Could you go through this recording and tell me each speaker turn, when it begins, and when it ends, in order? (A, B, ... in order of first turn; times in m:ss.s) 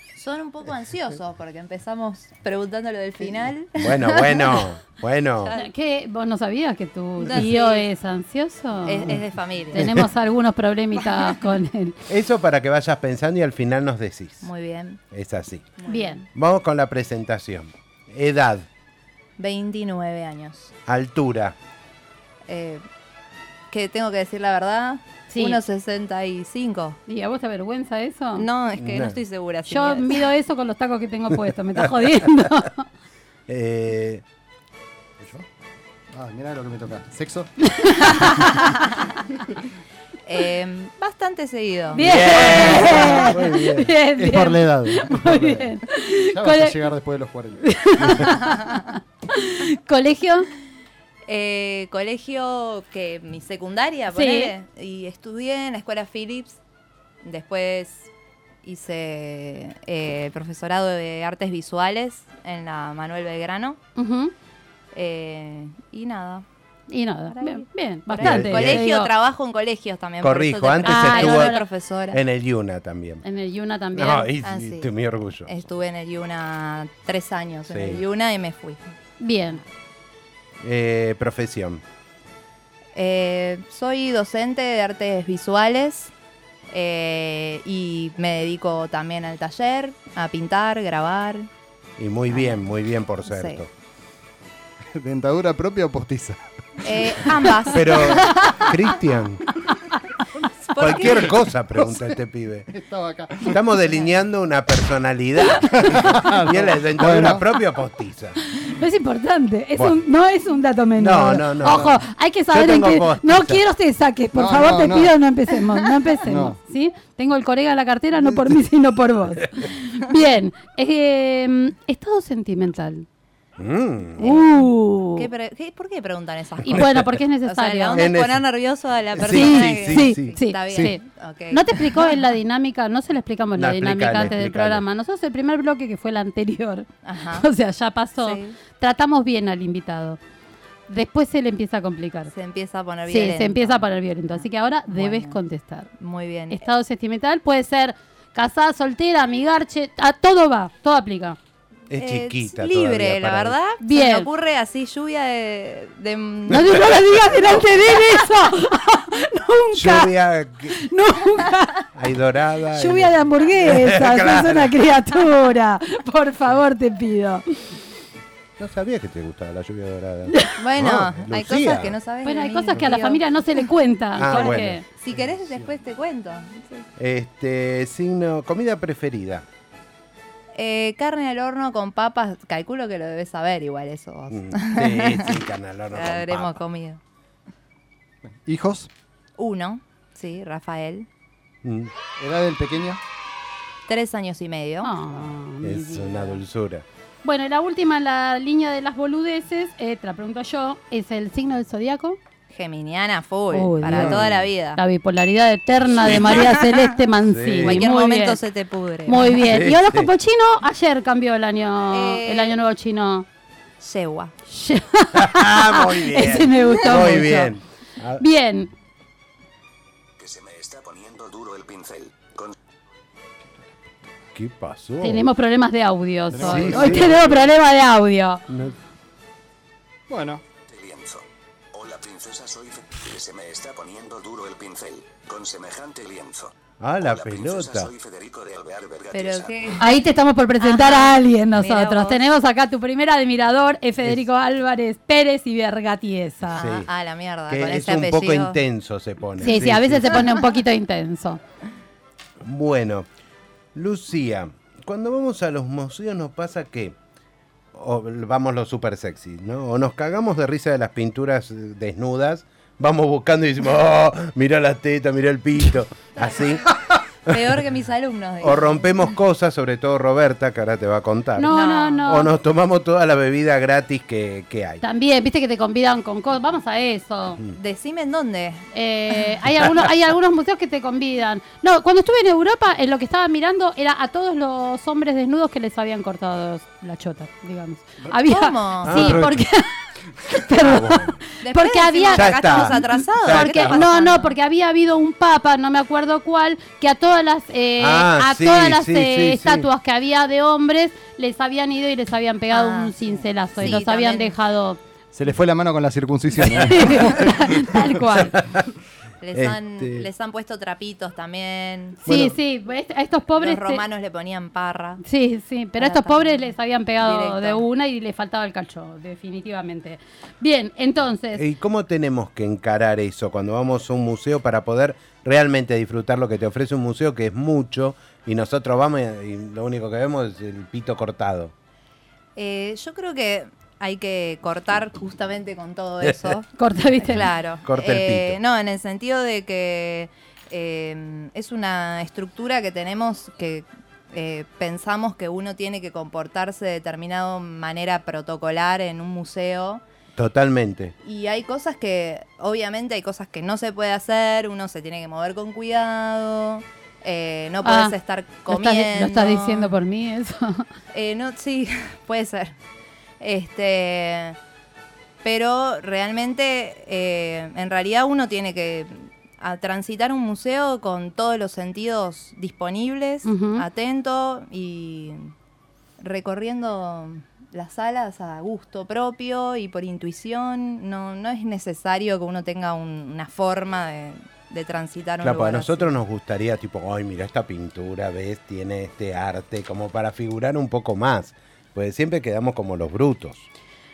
0:00.2-0:04.7 A
0:03.8-0:05.5 B
0:05.4-0:05.7 A
0:05.5-0:09.2 C
0:07.2-0:07.9 A
0:08.8-0:10.0 A
0:09.7-0:12.0 C
0:09.7-0:10.0 B
0:11.0-0:11.3 A
0:12.1-0:14.5 B
0:14.4-0:15.0 A
0:15.1-0:15.8 B
0:15.8-0:16.2 A
0:15.9-0:16.2 C
0:16.3-0:18.7 B
0:19.4-0:20.7 A
0:20.9-0:21.6 B
0:22.5-0:22.8 A
0:23.7-0:27.0 A
0:25.3-0:25.6 C
0:27.1-0:28.5 C
0:28.3-0:30.2 A
0:28.8-0:29.2 B
0:29.7-0:32.8 C
0:31.3-0:32.2 B
0:33.5-0:34.2 B
0:35.2-0:35.4 D
0:36.1-0:37.5 D
0:37.7-0:38.6 C
0:40.2-0:42.2 A
0:41.9-0:46.8 C
0:42.0-0:43.9 B
0:42.7-0:43.3 D
0:44.2-0:45.8 D
0:46.3-0:48.2 D
0:47.6-0:50.5 C
0:51.3-0:56.6 A
0:54.1-0:54.5 C
0:57.2-0:58.1 A
0:58.6-1:03.8 A
1:04.0-1:04.3 C
1:04.9-1:06.4 A
1:06.9-1:09.1 C
1:07.3-1:12.2 A
1:08.2-1:08.8 B
1:10.2-1:11.6 B
1:10.8-1:11.6 C
1:12.1-1:13.2 B
1:13.2-1:14.3 C
1:13.9-1:15.5 B
1:14.4-1:14.9 A
1:15.4-1:18.8 A
1:17.7-1:18.0 B
1:19.2-1:19.6 C
1:20.6-1:21.8 B
1:22.9-1:26.1 A
1:26.7-1:31.5 A
1:32.0-1:33.7 B
1:33.3-1:33.6 A
1:34.9-1:36.4 D
1:36.8-1:38.7 A
1:37.7-1:39.5 B
1:40.7-1:41.3 A
1:40.8-1:42.7 B
1:41.8-1:42.1 D
1:42.7-1:43.7 D
1:43.4-1:48.4 B
1:45.6-1:47.5 D
1:48.6-2:03.0 C
1:49.8-1:50.0 B
1:51.0-1:52.0 B
1:51.6-1:51.9 D
1:52.5-1:53.6 B
1:54.3-1:55.2 D
1:56.2-1:56.6 D
2:03.6-2:04.3 B
2:04.2-2:12.2 A
2:04.2-2:05.3 C
2:06.6-2:08.1 C
2:06.7-2:07.2 B
2:07.9-2:08.5 B
2:09.1-2:10.3 B
2:09.3-2:20.2 C
2:13.6-2:14.8 B
2:17.0-2:17.5 A
2:18.2-2:18.6 A
2:20.9-2:22.3 C
2:22.3-2:25.4 A
2:23.0-2:25.9 C
2:26.0-2:26.6 A
2:26.5-2:31.4 C
2:31.9-2:33.6 B
2:32.0-2:38.2 A
2:33.8-2:34.3 C
2:36.5-2:40.1 C
2:39.7-2:40.8 B
2:40.7-2:41.9 C
2:41.9-2:44.7 B
2:42.7-2:47.4 C
2:48.6-2:52.0 B
2:50.3-2:50.6 C
2:50.6-2:53.2 A
2:52.2-2:54.8 C
2:54.1-2:54.8 B
2:54.2-2:56.9 A
2:55.1-2:55.7 D
2:57.0-2:59.4 B
3:00.5-3:07.0 A
3:04.3-3:06.6 B
3:08.2-3:08.9 D
3:09.4-3:11.1 A
3:11.6-3:11.9 B
3:12.2-3:13.0 D
3:13.9-3:14.9 A
3:14.8-3:16.4 C
3:15.6-3:16.8 B
3:17.2-3:22.2 C
3:22.5-3:24.8 A
3:23.5-3:24.2 C
3:23.8-3:24.5 B
3:24.8-3:28.4 C
3:25.9-3:26.3 B
3:26.0-3:26.8 A
3:27.3-3:27.8 B
3:27.6-3:29.4 A
3:29.0-3:33.2 C
3:29.2-3:30.1 B
3:31.9-3:32.6 A
3:33.8-3:34.3 A
3:34.5-3:37.5 C
3:35.1-3:38.2 B
3:38.2-3:38.7 C
3:40.2-3:42.5 E
3:44.3-3:45.2 B
3:45.0-3:48.4 C
3:46.3-3:47.5 D
3:46.4-3:47.3 B
3:48.5-3:48.8 B
3:50.1-3:50.4 D
3:50.6-3:59.6 E
3:56.8-3:57.9 B
3:59.1-3:59.8 A
3:59.8-4:06.6 C
4:00.6-4:02.2 A
4:06.5-4:08.6 A
4:06.5-4:06.9 B
4:07.5-4:10.2 B
4:09.4-4:11.4 C
4:12.4-4:13.0 B
4:13.7-4:17.0 B
4:17.7-4:26.7 B
4:27.2-4:29.1 A
4:27.3-4:27.5 B
4:28.4-4:31.5 B
4:31.4-4:32.3 C
4:31.5-4:32.2 A
4:32.0-4:34.8 B
4:34.8-4:37.4 C
4:37.5-4:38.6 A
4:38.7-5:04.8 C
4:48.2-4:49.2 A
4:48.8-4:49.4 B
4:50.5-4:51.2 B
4:51.4-4:54.4 A
4:52.1-4:53.8 B
4:57.8-4:59.7 B
5:02.5-5:04.3 A
5:05.1-5:07.4 D
5:06.5-5:08.4 C
5:08.4-5:08.6 B
5:09.2-5:12.0 A
5:09.3-5:10.1 B
5:12.0-5:13.8 C
5:12.0-5:12.4 B
5:13.3-5:15.0 A
5:15.0-5:21.4 C
5:15.8-5:16.4 A
5:17.0-5:17.6 A
5:21.3-5:31.5 B
5:32.4-5:49.8 A
5:36.0-5:36.3 B
5:36.6-5:37.2 C
5:37.6-5:38.4 B
5:50.2-5:50.9 B
5:51.0-5:59.7 A
5:57.6-5:57.9 C
5:58.5-6:00.6 C
6:00.9-6:02.6 A
6:03.2-6:04.4 A
6:05.2-6:15.3 A
6:13.2-6:13.6 C
6:16.0-6:25.9 A
6:25.2-6:33.5 B